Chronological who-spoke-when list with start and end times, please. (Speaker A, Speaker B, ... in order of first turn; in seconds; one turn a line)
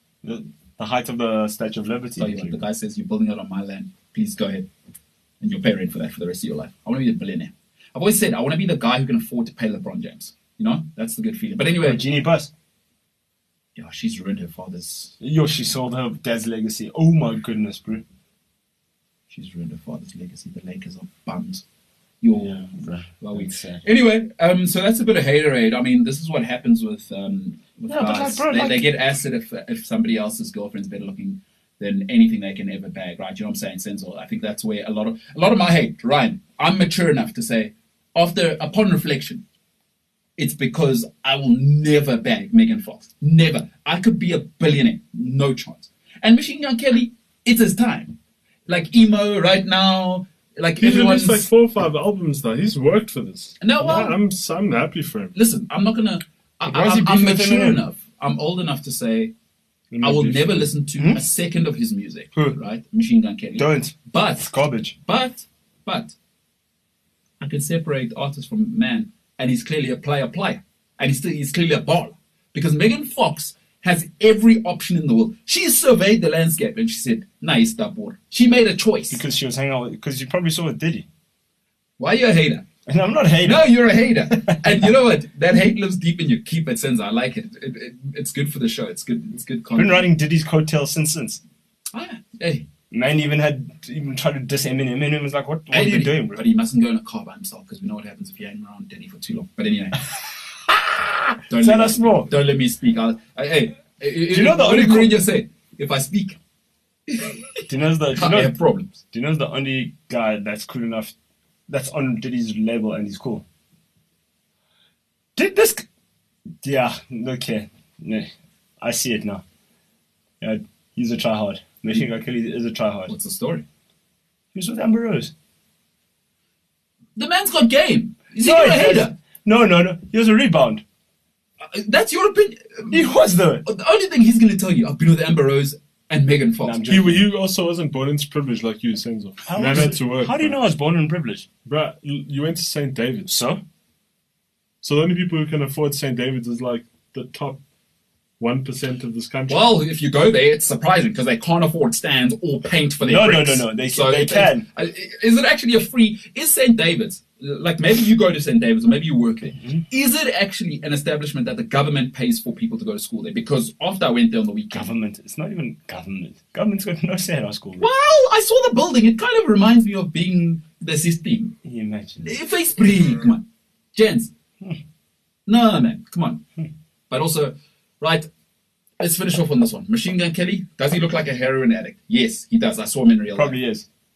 Speaker A: 0.2-2.6
Speaker B: 2.2-4.7
Speaker B: 5.4-12.0
Speaker A: 11.7-12.5
Speaker B: 13.8-15.1
Speaker A: 15.2-18.0
Speaker B: 19.3-21.6
Speaker B: 22.2-39.4
Speaker A: 22.4-23.8
Speaker A: 27.9-28.9
Speaker B: 40.4-48.1
Speaker B: 48.7-51.5
Speaker C: 50.8-55.3
Speaker B: 53.6-54.2
Speaker B: 55.3-59.3
Speaker A: 56.6-57.8
Speaker A: 59.9-61.2
Speaker B: 60.0-64.4
Speaker A: 63.6-65.0
Speaker B: 65.0-66.1
Speaker B: 67.4-79.2
Speaker A: 79.1-81.0
Speaker B: 82.0-82.6
Speaker A: 82.8-83.7
Speaker B: 83.4-90.1
Speaker A: 89.7-91.4
Speaker B: 91.9-92.7
Speaker A: 92.9-96.4
Speaker B: 95.7-100.0
Speaker A: 100.6-102.3
Speaker B: 101.5-106.4
Speaker A: 104.3-105.2
Speaker B: 107.1-107.6
Speaker A: 107.7-111.1
Speaker B: 108.1-108.9
Speaker A: 111.7-113.4
Speaker A: 115.3-115.8
Speaker A: 116.6-118.3
Speaker A: 118.8-119.4
Speaker A: 120.4-123.1
Speaker B: 123.1-123.6
Speaker A: 124.5-125.3
Speaker B: 127.2-129.1
Speaker A: 128.4-130.8
Speaker B: 131.6-133.1
Speaker A: 132.9-133.6
Speaker B: 133.6-136.9
Speaker A: 136.6-137.2
Speaker C: 136.9-140.6
Speaker A: 139.4-141.4
Speaker C: 141.7-143.3
Speaker A: 143.3-143.6
Speaker C: 144.8-147.6
Speaker C: 148.4-149.7
Speaker B: 149.5-164.9
Speaker A: 153.0-154.6
Speaker A: 159.5-159.8
Speaker A: 164.7-167.8
Speaker B: 167.8-171.5
Speaker A: 171.6-172.4
Speaker B: 172.2-174.3
Speaker B: 175.5-176.4
Speaker B: 177.1-178.3
Speaker B: 179.0-183.6
Speaker A: 183.3-183.8